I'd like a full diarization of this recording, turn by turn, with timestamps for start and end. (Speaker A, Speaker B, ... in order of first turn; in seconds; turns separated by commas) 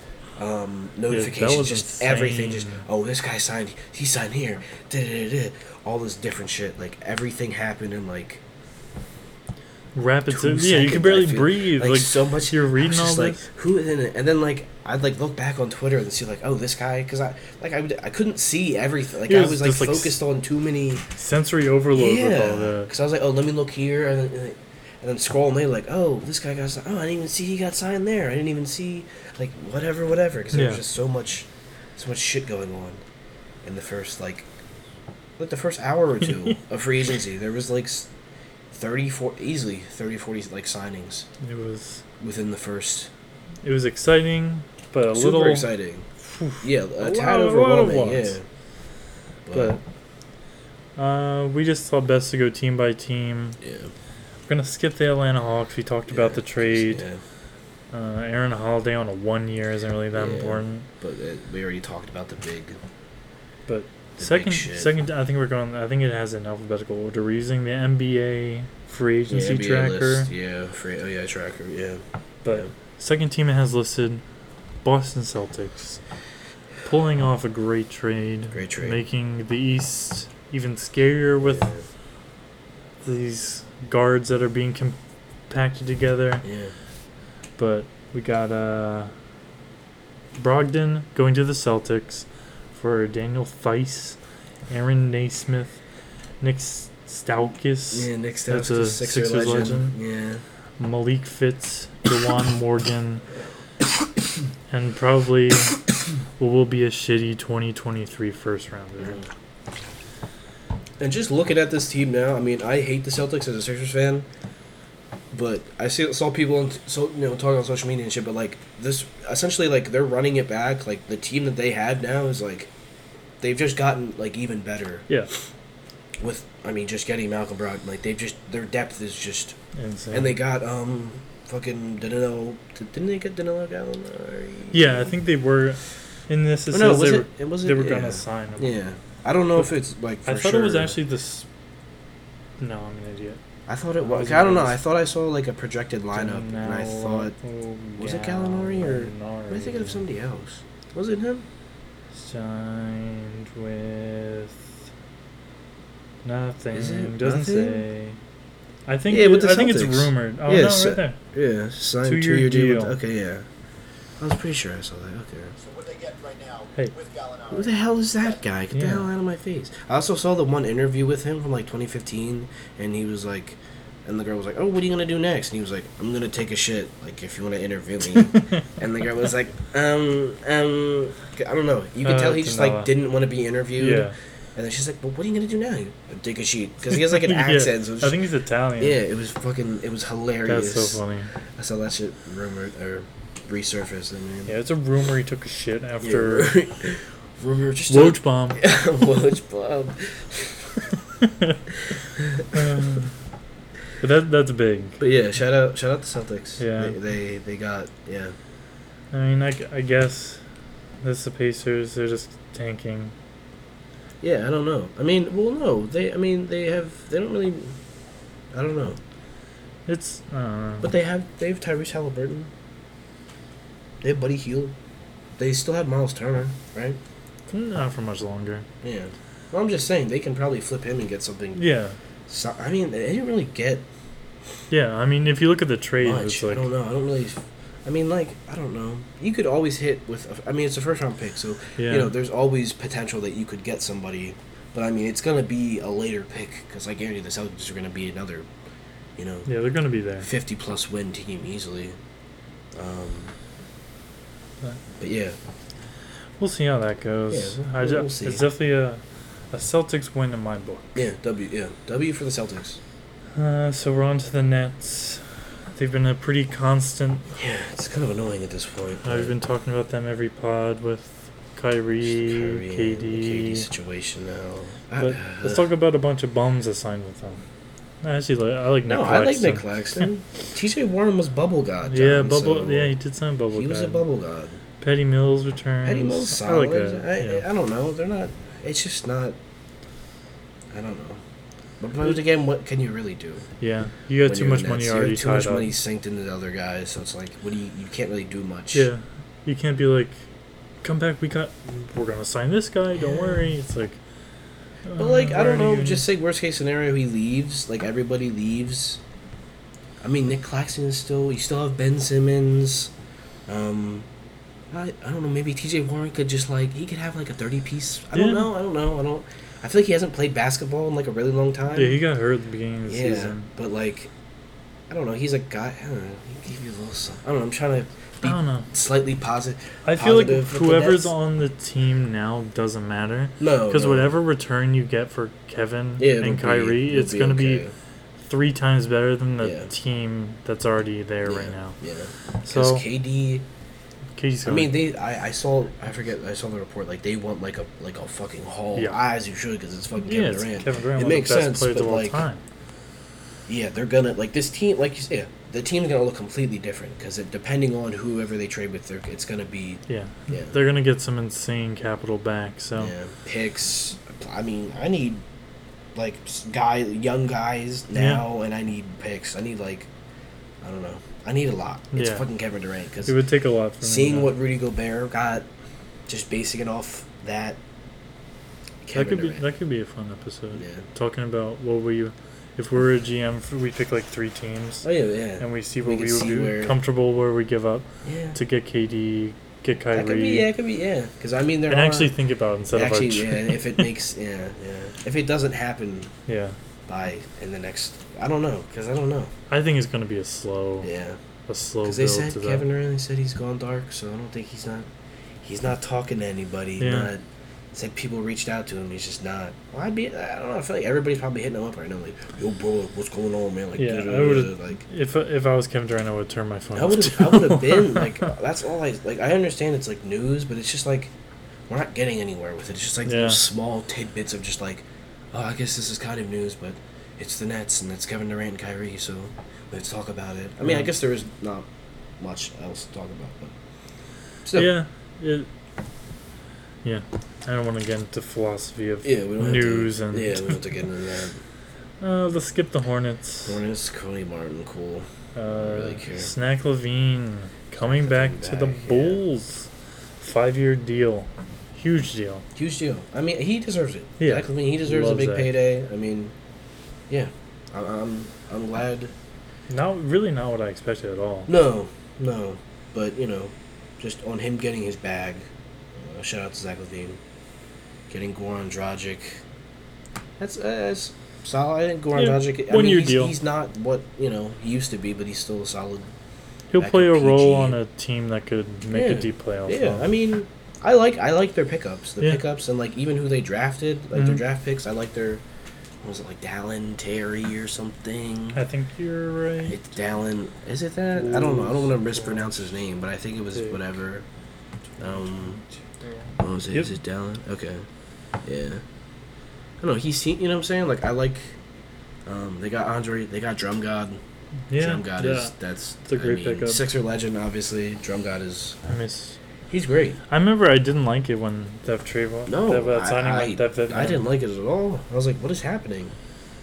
Speaker A: 0.3-8.4, Speaker B: 1.1-2.8, Speaker B: 9.9-13.4, Speaker A: 10.3-21.0, Speaker B: 19.3-20.2, Speaker B: 21.1-22.9, Speaker A: 21.9-33.0, Speaker B: 30.5-30.8, Speaker A: 33.6-34.5, Speaker A: 35.4-38.1, Speaker A: 38.7-41.3, Speaker B: 41.4-42.0, Speaker A: 42.2-43.1, Speaker B: 43.6-48.3, Speaker A: 45.1-46.1, Speaker A: 46.6-48.4, Speaker A: 49.5-49.8, Speaker B: 49.5-49.8, Speaker B: 51.0-53.6, Speaker A: 53.6-53.9, Speaker B: 54.5-57.0, Speaker A: 56.1-57.2, Speaker B: 57.9-60.9, Speaker A: 60.1-62.8, Speaker B: 63.7-70.3, Speaker A: 64.2-64.9, Speaker A: 69.3-72.7, Speaker B: 72.4-74.2, Speaker B: 74.8-76.0, Speaker B: 76.8-81.7, Speaker A: 78.5-79.0, Speaker A: 81.4-81.8, Speaker B: 83.0-85.0, Speaker B: 85.5-86.5, Speaker A: 86.4-86.7, Speaker B: 87.6-89.1, Speaker B: 90.3-94.2, Speaker B: 94.7-95.8, Speaker B: 96.4-100.0, Speaker A: 97.9-100.4, Speaker B: 100.8-103.2, Speaker B: 104.7-105.8, Speaker B: 106.4-109.2, Speaker A: 111.0-114.3, Speaker A: 115.3-122.7, Speaker A: 123.4-125.1, Speaker A: 126.2-129.6, Speaker B: 129.7-130.3, Speaker A: 130.1-135.1, Speaker B: 134.7-138.7, Speaker A: 136.7-141.0, Speaker B: 140.2-141.5, Speaker B: 142.6-143.4, Speaker A: 143.7-147.3, Speaker B: 144.0-144.8, Speaker B: 146.1-150.0, Speaker A: 148.0-151.4, Speaker B: 152.1-154.6, Speaker B: 156.2-158.2, Speaker A: 156.7-157.8, Speaker B: 158.8-161.2, Speaker A: 159.1-163.4, Speaker B: 162.0-162.9, Speaker A: 164.2-165.6, Speaker C: 165.6-168.4, Speaker A: 167.5-188.2, Speaker B: 168.7-169.1, Speaker B: 178.3-178.6, Speaker B: 182.0-182.9, Speaker B: 183.8-184.1, Speaker B: 186.9-189.0, Speaker A: 188.8-191.0, Speaker B: 190.4-191.3, Speaker A: 191.6-194.5, Speaker B: 194.4-196.6, Speaker A: 196.0-200.8, Speaker B: 197.9-198.6, Speaker B: 201.2-201.6, Speaker A: 202.2-202.5, Speaker B: 202.5-203.1, Speaker B: 204.0-205.0, Speaker A: 205.0-208.3, Speaker B: 206.6-206.9, Speaker B: 209.1-210.4, Speaker B: 211.0-213.1, Speaker A: 214.2-217.7, Speaker A: 218.5-219.0, Speaker B: 219.9-220.9, Speaker A: 220.8-222.5, Speaker A: 224.0-224.7, Speaker A: 225.4-227.0, Speaker B: 227.5-228.7, Speaker A: 228.8-231.6, Speaker B: 231.6-232.0, Speaker A: 232.3-233.8, Speaker B: 234.7-236.7, Speaker A: 236.0-248.5, Speaker B: 241.8-242.1, Speaker A: 249.2-249.5, Speaker B: 249.4-250.3, Speaker A: 250.2-251.9, Speaker A: 252.7-253.3, Speaker A: 255.0-255.3, Speaker B: 256.4-261.0, Speaker A: 257.3-258.4, Speaker A: 260.9-262.8, Speaker B: 263.4-267.2, Speaker A: 267.3-269.3, Speaker B: 269.0-273.7, Speaker A: 272.0-275.7, Speaker B: 275.0-277.4, Speaker B: 278.0-280.0, Speaker A: 278.9-282.9, Speaker B: 281.9-284.0, Speaker A: 283.5-284.6, Speaker B: 284.8-287.4, Speaker A: 285.8-289.4, Speaker A: 290.7-291.2, Speaker A: 291.8-293.4, Speaker B: 293.6-295.7, Speaker A: 294.2-298.9, Speaker B: 298.7-300.2, Speaker B: 300.8-304.0, Speaker A: 303.0-303.3, Speaker B: 304.9-306.0, Speaker A: 305.0-309.0, Speaker A: 310.0-312.9, Speaker A: 313.5-314.1, Speaker A: 314.7-322.0, Speaker B: 318.1-318.5, Speaker B: 321.7-323.5, Speaker A: 322.9-324.1, Speaker A: 324.9-331.1, Speaker B: 328.2-328.7, Speaker B: 329.8-337.6, Speaker A: 333.4-334.1, Speaker A: 336.0-337.7, Speaker B: 338.2-341.8, Speaker A: 339.4-339.7, Speaker A: 341.2-343.4, Speaker B: 342.4-342.8, Speaker B: 344.1-344.7, Speaker A: 344.4-352.2, Speaker B: 350.0-352.4, Speaker A: 353.5-360.5, Speaker B: 359.9-362.9, Speaker A: 362.8-365.2, Speaker A: 365.9-369.9, Speaker B: 367.9-368.2, Speaker A: 370.6-373.1, Speaker B: 371.9-372.2, Speaker B: 373.1-374.3, Speaker A: 373.8-375.5, Speaker A: 376.1-377.6, Speaker A: 378.8-379.5, Speaker B: 378.9-384.9, Speaker A: 380.6-380.8, Speaker A: 384.8-386.8, Speaker B: 385.4-390.5, Speaker A: 388.0-388.4, Speaker A: 389.9-392.1, Speaker B: 391.7-393.9, Speaker A: 392.7-396.1, Speaker B: 396.3-396.6, Speaker A: 396.9-399.3, Speaker B: 399.5-400.9, Speaker A: 400.8-401.2, Speaker B: 401.5-402.7, Speaker A: 401.8-404.9, Speaker A: 405.4-407.2, Speaker B: 406.8-407.1, Speaker A: 407.7-414.8, Speaker B: 413.8-418.3, Speaker A: 416.7-421.1, Speaker A: 421.7-431.7, Speaker B: 423.0-423.4, Speaker B: 430.6-430.9, Speaker A: 432.2-433.5, Speaker A: 434.4-434.7, Speaker B: 434.5-435.5, Speaker B: 436.8-440.6, Speaker A: 439.0-441.4, Speaker B: 442.0-443.6, Speaker A: 443.4-446.3, Speaker B: 445.4-449.7, Speaker A: 447.8-449.2, Speaker B: 450.2-452.4, Speaker A: 452.5-456.3, Speaker B: 454.2-455.5, Speaker A: 457.1-459.1, Speaker B: 459.7-461.5, Speaker A: 461.5-467.2, Speaker A: 468.1-469.4, Speaker A: 470.4-476.1, Speaker B: 472.1-473.3, Speaker B: 476.7-480.1, Speaker A: 476.8-477.8, Speaker A: 478.9-485.4, Speaker B: 484.1-484.4, Speaker A: 486.0-488.6, Speaker B: 488.5-489.8, Speaker A: 489.7-494.2, Speaker B: 491.1-492.7, Speaker B: 493.5-493.8, Speaker B: 495.0-496.9, Speaker A: 495.0-495.6, Speaker A: 496.4-497.8, Speaker A: 498.4-498.8, Speaker A: 499.8-501.6, Speaker A: 502.2-504.2, Speaker B: 504.7-505.5, Speaker A: 504.7-508.8, Speaker B: 506.0-506.8, Speaker B: 508.8-509.4, Speaker A: 509.7-510.2, Speaker B: 510.3-514.2, Speaker A: 512.5-516.1